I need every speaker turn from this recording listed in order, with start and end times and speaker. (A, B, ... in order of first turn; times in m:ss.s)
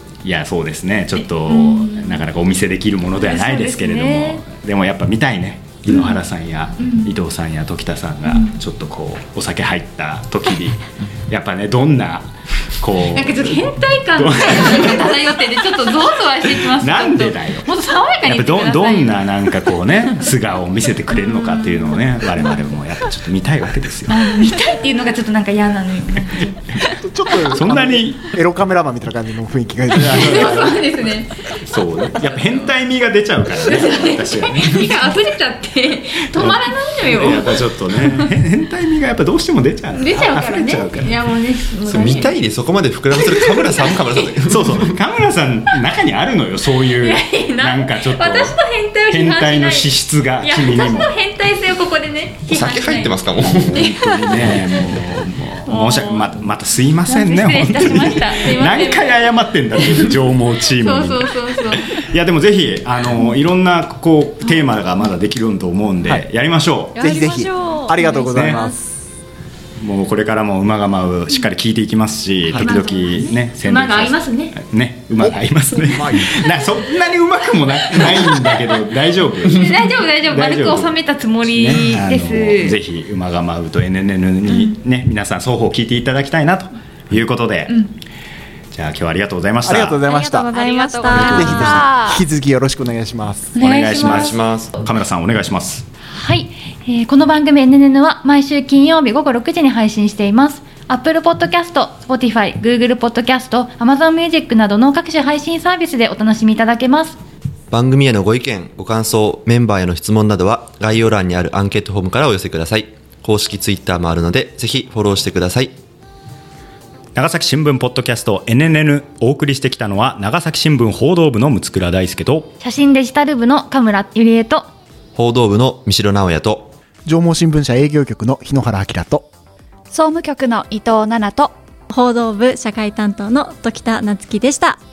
0:00.2-0:15.2 A
0:01.4-0:02.2 B
0:03.2-0:04.4 B
0:05.9-0:06.2 B
0:06.8-0:07.1 B
0:08.2-0:08.5 B
0:13.0-0:19.3 B
0:16.6-0:17.7 A
0:18.2-0:24.3 A
0:21.1-0:22.7 B
0:24.1-0:27.5 B
0:26.8-0:30.9 C
0:27.4-0:28.3 A
0:29.9-0:31.6 B
0:30.1-0:30.6 A
0:31.5-0:35.2 A
0:33.6-0:38.3 B
0:36.3-0:41.1 A
0:39.9-0:42.4 B
0:41.8-0:45.0 D
0:43.2-0:44.3 B
0:44.4-0:48.6 A
0:46.8-0:55.0 B
0:49.1-0:51.1 A
0:52.5-0:54.0 D
0:53.4-1:07.1 A
0:55.6-0:56.3 B
0:57.0-1:00.1 B
1:00.6-1:02.0 B
1:07.0-1:08.6 E
1:07.0-1:08.8 C
1:07.0-1:08.7 F
1:08.3-1:08.6 A
1:09.8-1:20.9 A
1:12.5-1:14.5 B
1:15.2-1:16.4 C
1:19.4-1:22.8 B
1:21.5-1:27.9 A
1:24.5-1:24.8 B
1:28.7-1:30.0 A
1:29.6-1:30.5 C
1:30.1-1:31.9 F
1:30.1-1:32.2 E
1:31.1-1:33.5 C
1:33.5-1:34.9 B
1:33.6-1:35.8 A
1:33.9-1:34.7 D
1:36.1-1:47.2 B
1:47.7-1:55.7 D
1:57.1-2:02.5 A
2:02.6-2:04.7 B
2:05.1-2:06.7 D
2:07.0-2:09.3 C
2:09.9-2:11.6 E
2:11.9-2:14.8 F